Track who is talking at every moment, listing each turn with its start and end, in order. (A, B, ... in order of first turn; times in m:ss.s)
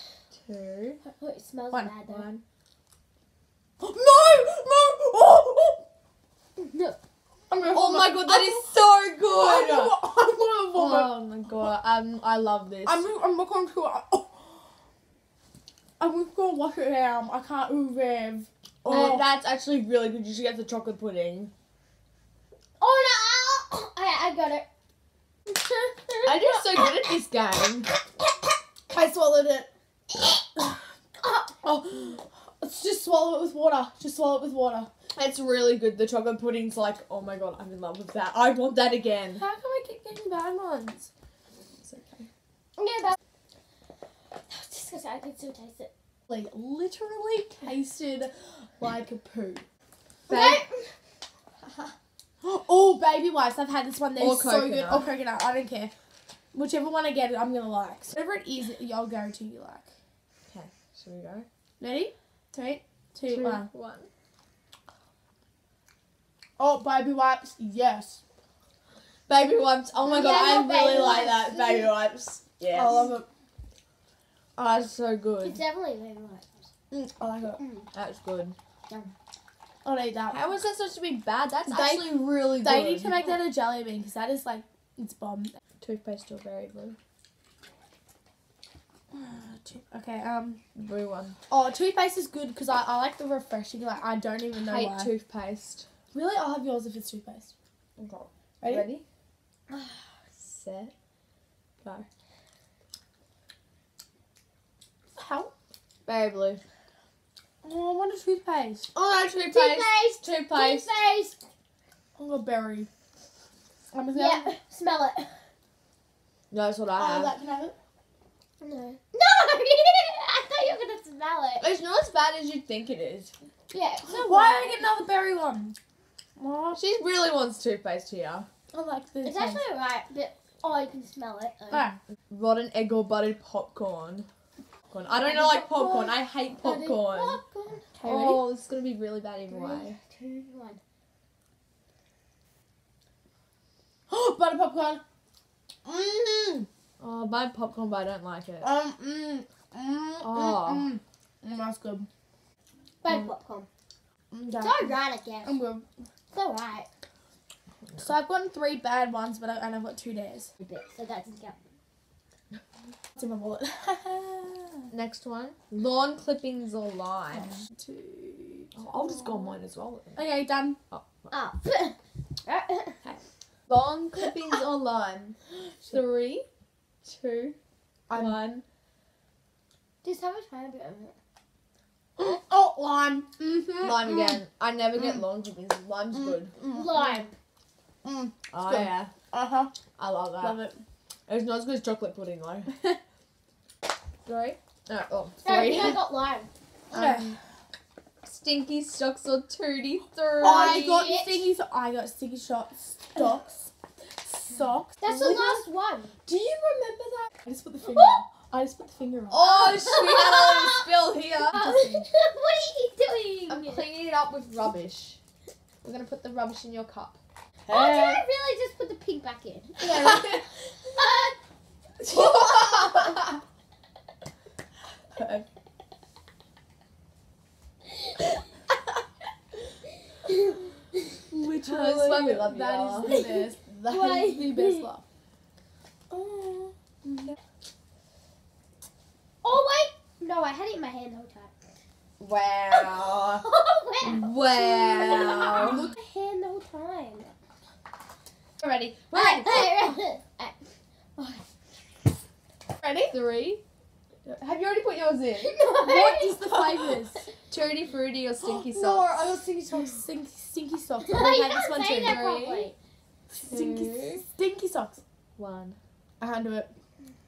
0:00.3-0:01.0 A
0:01.0-0:02.3 B
0:02.1-0:02.4 A
0:03.8-0:05.8 C
0:06.6-0:07.0 B
0:07.5-0:08.7 C
0:07.7-0:10.0 A
0:09.3-0:11.7 C
0:10.7-0:13.0 A
0:12.8-0:14.7 C
0:16.0-0:19.2 C
0:18.8-0:21.5 A
0:22.8-0:24.7 B
0:25.5-0:27.0 B
0:26.2-0:27.9 A
0:28.9-0:29.7 C
0:31.2-0:31.6 B
0:31.6-0:34.9 C
0:35.2-0:39.4 A
0:39.4-0:41.1 C
0:41.8-0:42.3 A
0:42.8-0:43.2 B
0:44.5-0:45.9 B
0:46.3-0:49.6 C
0:50.3-0:50.6 A
0:50.3-0:50.8 B
0:52.4-0:55.9 C
0:54.2-0:55.1 A
0:56.5-0:59.9 C
1:00.5-1:01.5 A
1:01.8-1:03.7 C
1:03.3-1:04.1 A
1:06.6-1:08.2 C
1:09.3-1:13.1 A
1:10.0-1:11.9 B
1:12.7-1:13.2 C
1:14.6-1:15.6 A
1:15.4-1:16.7 B
1:16.9-1:17.6 C
1:17.6-1:17.9 B
1:17.9-1:18.6 A
1:19.8-1:20.4 C
1:20.3-1:23.2 A
1:21.6-1:25.5 C
1:23.1-1:23.4 B
1:25.8-1:27.0 A
1:29.1-1:30.6 C
1:30.8-1:31.4 A
1:31.5-1:35.1 C
1:34.5-1:35.8 A
1:36.1-1:37.5 C
1:38.0-1:39.0 A
1:38.6-1:38.9 C
1:39.7-1:40.9 A
1:45.1-1:45.5 C
1:46.0-1:46.6 A
1:47.6-1:48.9 C
1:48.9-1:51.0 A
1:49.5-1:51.4 B
1:52.2-1:52.9 C
1:53.9-1:54.6 C
1:54.1-1:55.3 B
1:56.5-1:57.4 A
1:57.0-1:57.8 C
1:58.6-2:01.6 B
2:01.6-2:03.3 A
2:03.7-2:04.8 B
2:04.0-2:05.8 C
2:06.4-2:06.8 C
2:06.7-2:08.5 A
2:08.7-2:09.6 C
2:09.2-2:11.9 B
2:11.7-2:12.0 C
2:12.3-2:14.3 A
2:14.9-2:17.4 A
2:15.2-2:17.9 B
2:17.9-2:18.4 C
2:18.0-2:20.0 A
2:19.5-2:20.8 B
2:24.1-2:25.0 C
2:25.8-2:26.7 C
2:27.0-2:28.7 A
2:28.6-2:32.1 C
2:30.2-2:30.9 A
2:33.0-2:33.7 B
2:34.3-2:35.8 C
2:34.6-2:35.6 B
2:36.3-2:36.9 B
2:38.0-2:40.5 C
2:40.6-2:41.6 B
2:43.1-2:44.9 C
2:44.9-2:47.6 A
2:47.3-2:48.9 C
2:48.7-2:50.2 A
2:50.1-2:50.8 C
2:50.9-2:51.3 A
2:51.3-2:53.0 B
2:53.0-2:56.4 A
2:57.0-2:57.6 A
2:58.1-2:58.4 C
2:58.1-2:58.6 A
3:00.0-3:01.2 B
3:02.2-3:04.4 C
3:03.8-3:06.5 A
3:06.1-3:07.2 C
3:06.6-3:07.4 B
3:08.0-3:09.7 C
3:08.5-3:09.1 A
3:10.0-3:10.6 A
3:10.4-3:10.8 C
3:11.3-3:12.7 A
3:14.2-3:16.1 A
3:15.4-3:16.5 B
3:16.9-3:17.4 A
3:16.9-3:17.4 C
3:18.2-3:20.9 A
3:20.4-3:25.6 C
3:20.4-3:21.5 B
3:25.0-3:26.1 B
3:26.3-3:29.4 C
3:27.9-3:28.2 B
3:29.3-3:31.6 A
3:29.6-3:30.8 B
3:31.5-3:33.8 B
3:31.5-3:32.1 C
3:33.5-3:35.2 A
3:35.8-3:38.2 A
3:37.7-3:41.4 B
3:39.8-3:40.4 C
3:42.0-3:43.4 A
3:42.1-3:42.4 B
3:45.1-3:45.4 A
3:51.3-3:55.0 C
3:51.6-3:53.2 A
3:53.0-3:54.9 B
3:56.1-3:57.3 C
3:59.4-4:01.5 B
4:02.2-4:03.4 A
4:02.7-4:07.3 B
4:04.0-4:05.9 A
4:08.6-4:10.0 A
4:09.1-4:10.6 B
4:11.2-4:11.4 B
4:12.9-4:13.6 A
4:14.2-4:15.6 A
4:15.4-4:16.5 B
4:15.8-4:17.2 C
4:17.5-4:19.4 A
4:18.7-4:22.2 C
4:21.0-4:22.8 B
4:22.0-4:22.7 A
4:23.3-4:25.0 C
4:23.4-4:24.2 A
4:25.4-4:25.8 A
4:26.2-4:26.7 C